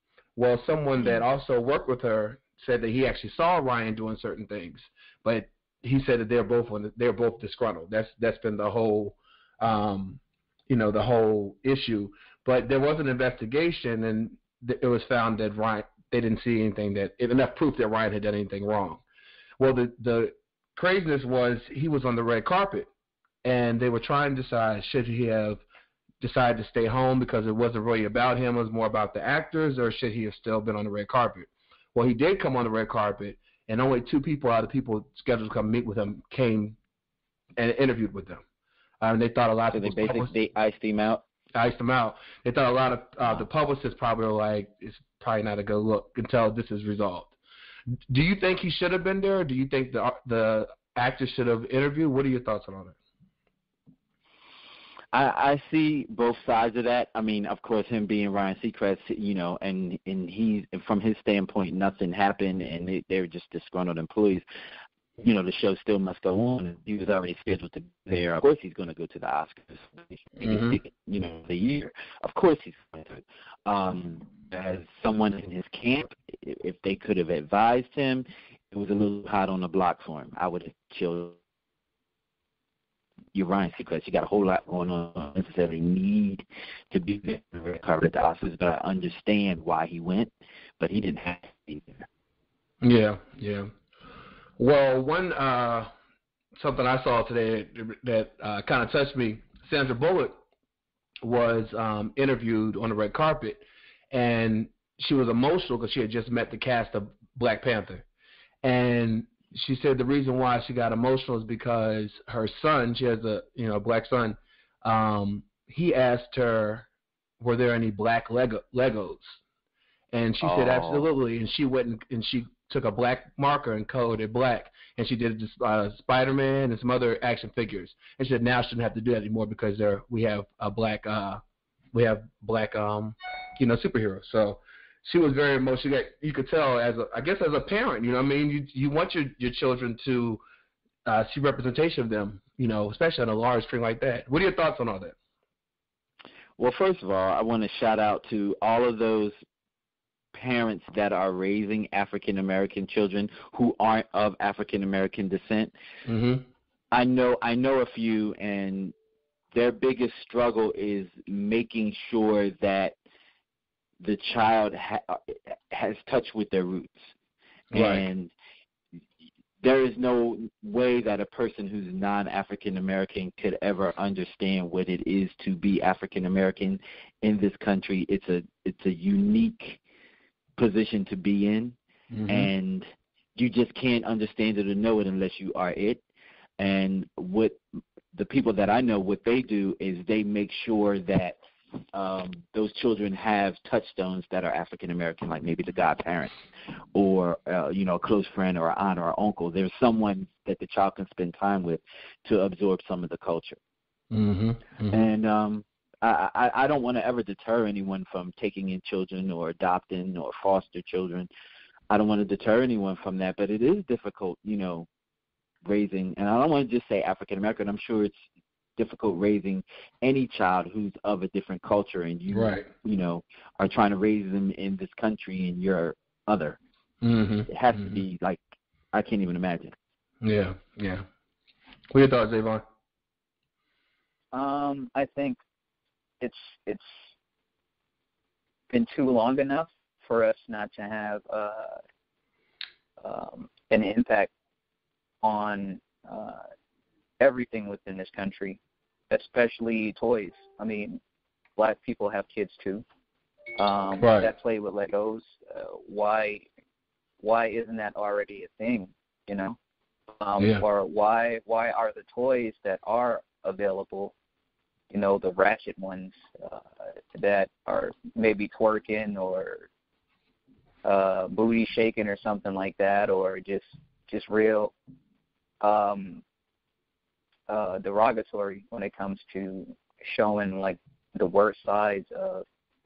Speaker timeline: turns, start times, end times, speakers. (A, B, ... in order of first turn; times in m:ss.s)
0:00.4-0:19.0 A
0:19.6-0:22.9 A
0:23.4-0:25.6 A
0:26.2-0:36.8 A
0:37.6-0:38.4 A
0:39.0-0:40.3 A
0:39.7-0:41.2 B
0:41.5-0:47.3 A
0:48.1-0:53.0 A
0:55.1-1:04.4 B
1:05.2-1:21.4 B
1:10.4-1:10.8 A
1:23.3-1:32.0 B
1:32.8-1:33.7 A
1:34.6-1:35.9 A
1:36.6-1:40.4 A
1:41.2-1:48.0 A
1:48.6-1:56.9 A
1:57.4-1:59.4 A
2:00.1-2:11.4 A
2:00.4-2:01.1 B
2:11.9-2:20.4 A
2:21.1-2:25.1 A
2:26.6-2:29.4 B
2:30.3-2:35.7 B
2:36.1-2:36.4 A
2:36.9-2:38.9 B
2:39.5-2:42.9 B
2:44.0-2:47.1 B
2:47.7-2:48.1 A
2:47.7-2:48.3 B
2:49.6-2:59.8 B
3:00.6-3:01.8 B
3:02.1-3:02.5 A
3:02.3-3:06.0 B
3:06.6-3:07.6 B
3:08.1-3:11.4 B
3:11.9-3:16.4 B
3:16.9-3:23.6 B
3:24.1-3:25.1 A
3:24.9-3:31.3 B
3:31.9-3:34.9 B
3:35.6-3:38.2 B
3:38.8-3:46.6 B
3:42.3-3:42.7 A
3:47.0-3:48.0 A
3:47.5-3:49.7 B
3:50.2-3:51.0 A
3:51.9-3:52.6 A
3:54.3-3:55.4 C
3:56.2-3:57.1 C
3:58.7-4:01.8 C
4:03.0-4:04.3 C
4:05.2-4:06.4 C
4:07.2-4:11.0 C
4:11.6-4:12.8 C
4:13.6-4:16.5 C
4:14.0-4:14.3 A
4:17.2-4:19.6 C
4:20.2-4:24.1 C
4:20.4-4:20.6 A
4:24.9-4:29.7 C
4:30.8-4:34.7 C
4:35.6-4:36.2 C
4:37.5-4:42.4 C